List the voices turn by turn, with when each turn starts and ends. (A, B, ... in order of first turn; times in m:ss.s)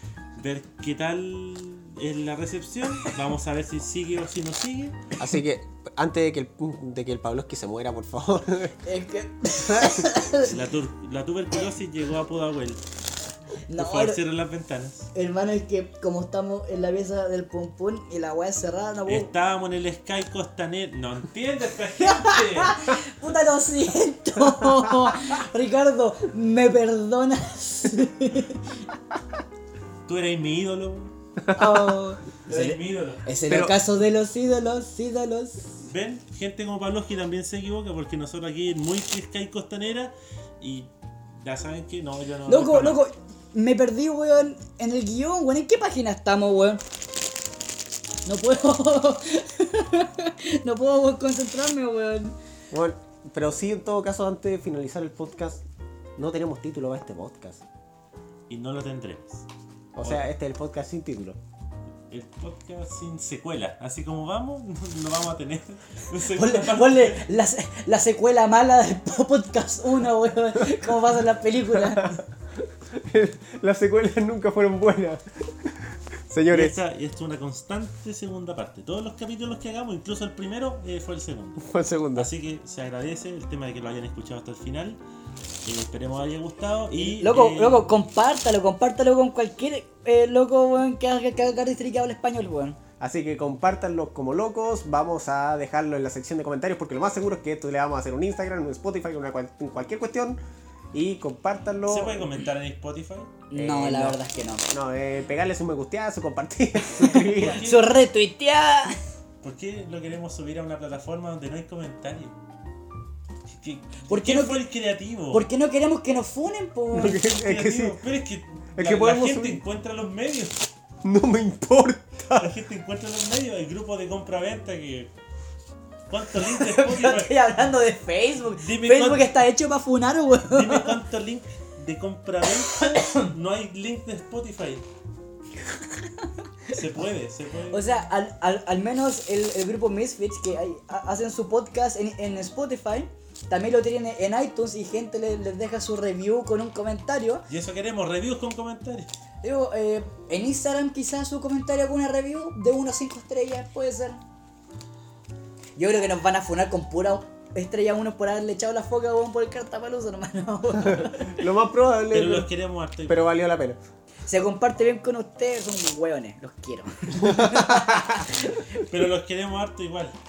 0:00.4-0:05.0 A
0:05.2-0:08.8 B
0:08.8-0:10.6 C
0:09.7-0:10.0 B
0:10.4-0:12.8 A
0:13.7-0:14.2 C
0:13.8-0:15.1 A
0:15.1-0:19.3 C
0:19.1-0:22.8 A
0:22.0-0:28.7 C
0:30.1-0:31.1 A
0:31.5-0:32.0 B
0:31.6-0:35.7 C
0:32.5-0:33.2 A
0:33.5-0:33.8 B
0:35.8-0:43.0 A
0:42.5-0:46.8 C
0:48.3-0:52.4 C
0:52.7-0:55.6 B
0:56.2-0:57.6 B
0:58.5-0:59.5 A
1:00.0-1:01.4 B
1:00.0-1:00.3 A
1:02.1-1:07.2 A
1:06.3-1:12.2 C
1:11.8-1:16.8 B
1:16.5-1:25.0 A
1:21.6-1:22.3 B
1:25.6-1:27.9 A
1:27.0-1:32.8 C
1:33.0-1:40.4 B
1:40.9-1:42.3 B
1:41.9-1:43.4 A
1:43.5-1:44.7 C
1:43.5-1:44.2 B
1:44.7-1:47.6 B
1:47.0-1:47.9 A
1:47.1-1:49.0 C
1:49.4-1:52.4 A
1:53.5-1:55.5 A
1:54.1-1:54.6 C
1:55.3-1:57.2 C
1:56.9-1:58.0 B
1:57.0-2:00.6 A
1:58.8-1:59.6 B
2:01.0-2:02.5 B
2:02.4-2:05.1 A
2:06.1-2:07.7 A
2:06.4-2:11.0 C
2:08.6-2:09.3 A
2:10.5-2:14.8 A
2:12.9-2:13.3 C
2:16.7-2:17.8 A
2:17.7-2:27.5 C
2:27.5-2:29.1 A
2:29.4-2:34.2 C
2:35.8-2:41.4 C
2:40.8-2:42.5 B
2:42.1-2:43.3 A
2:43.1-2:43.8 B
2:44.3-2:48.8 C
2:47.2-2:48.1 B
2:48.8-2:50.2 A